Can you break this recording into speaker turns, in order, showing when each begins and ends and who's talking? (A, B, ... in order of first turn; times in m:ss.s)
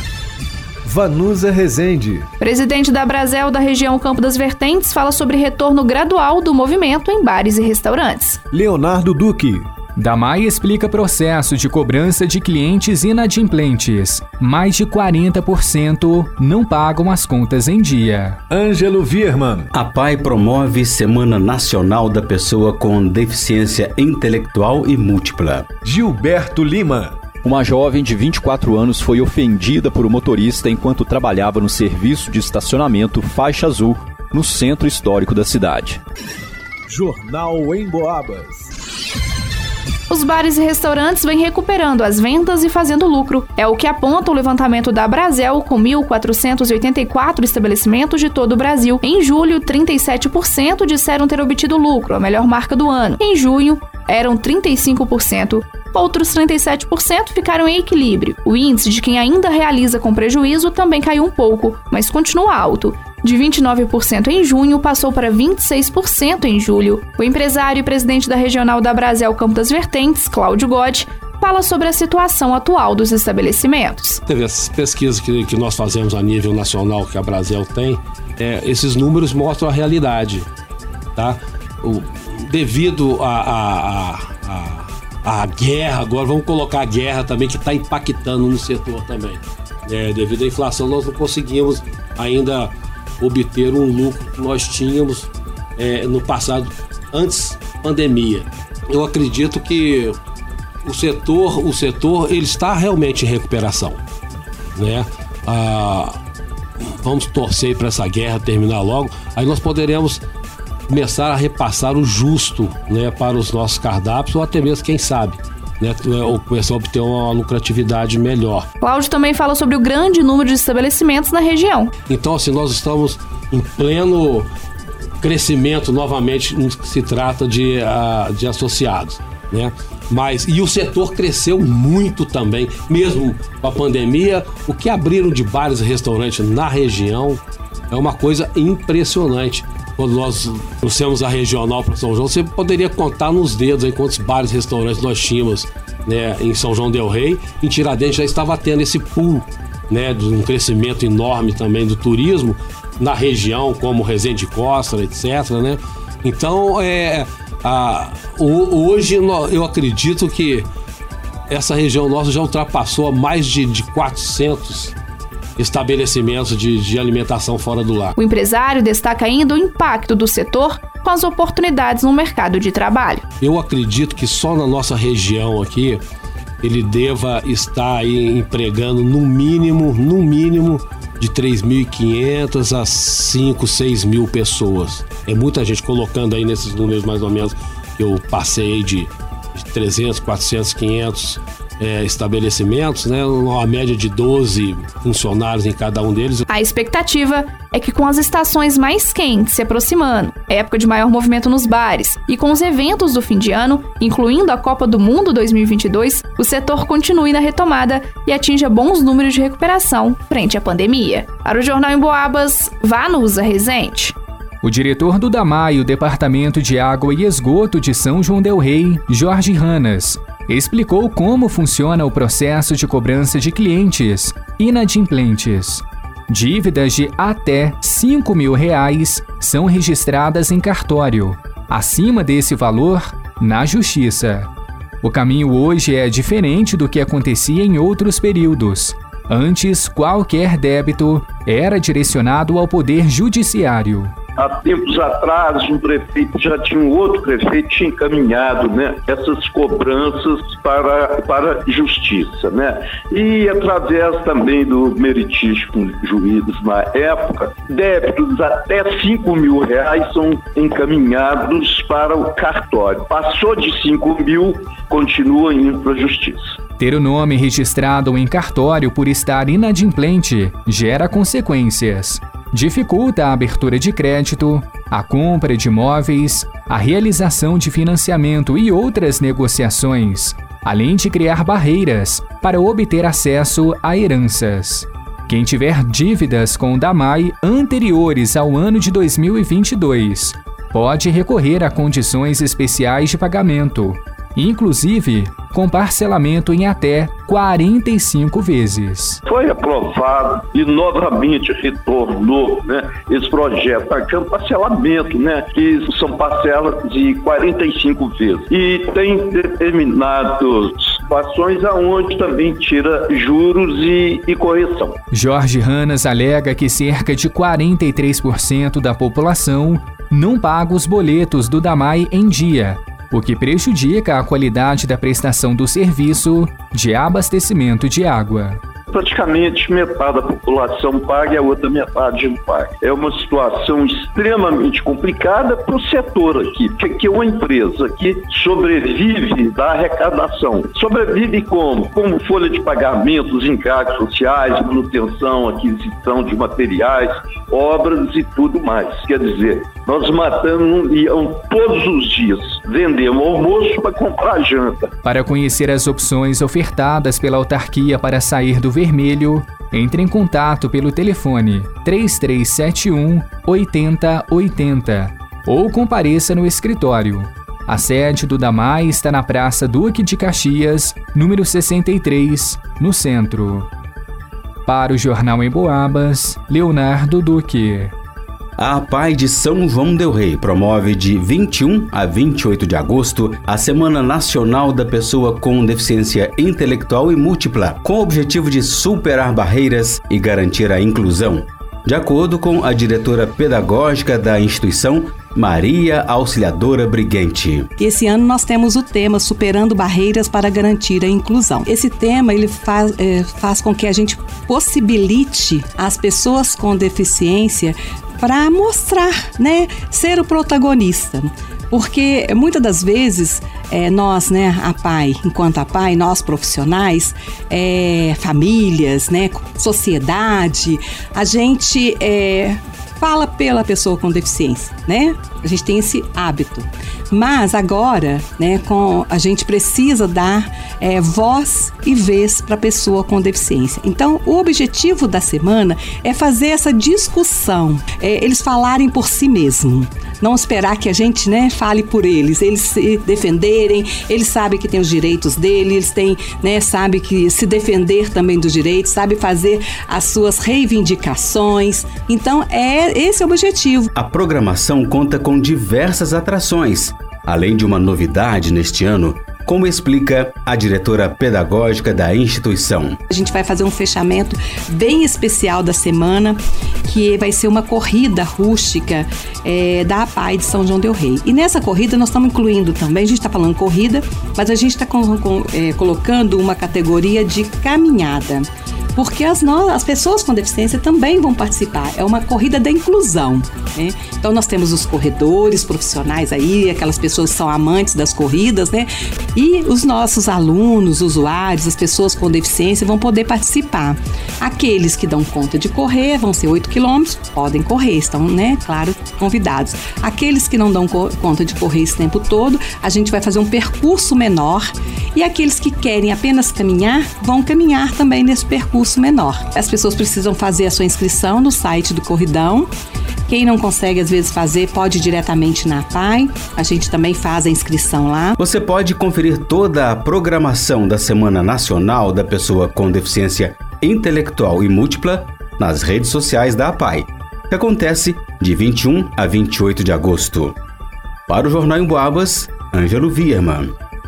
0:00.8-0:02.3 A
0:02.4-0:08.4 B
0:08.5-0:09.7 A
0:10.0-0:18.4 C
0:18.5-0:19.7 A
0:19.7-0:25.7 D
0:25.8-0:27.1 A
0:27.4-0:36.0 E
0:36.9-0:38.7 A
0:40.1-1:14.2 B
1:14.3-1:20.5 F
1:21.2-1:40.2 F
1:40.8-1:44.0 F
1:44.8-1:46.2 F
1:47.0-1:50.2 F
1:50.9-1:58.7 F
1:58.8-2:01.9 B
2:02.1-2:04.5 F
2:05.2-2:40.7 F
2:41.5-2:44.9 F
2:45.6-2:48.1 F
2:48.2-2:53.2 B
2:53.4-2:56.0 F
2:56.6-3:16.4 F
3:16.5-3:34.1 B
3:34.6-3:54.5 C
3:55.0-4:04.1 C
4:04.4-4:26.5 G
4:26.8-4:59.2 C
4:59.2-5:15.0 G
5:15.1-5:28.6 C
5:28.9-5:54.9 G
5:55.0-6:13.7 C
6:14.6-6:17.9 C
6:18.6-6:37.7 D
6:37.8-7:33.9 H
7:33.9-7:43.0 D
7:43.1-8:32.7 H
8:33.3-8:38.4 H
8:38.4-8:50.6 D
8:51.3-8:53.7 D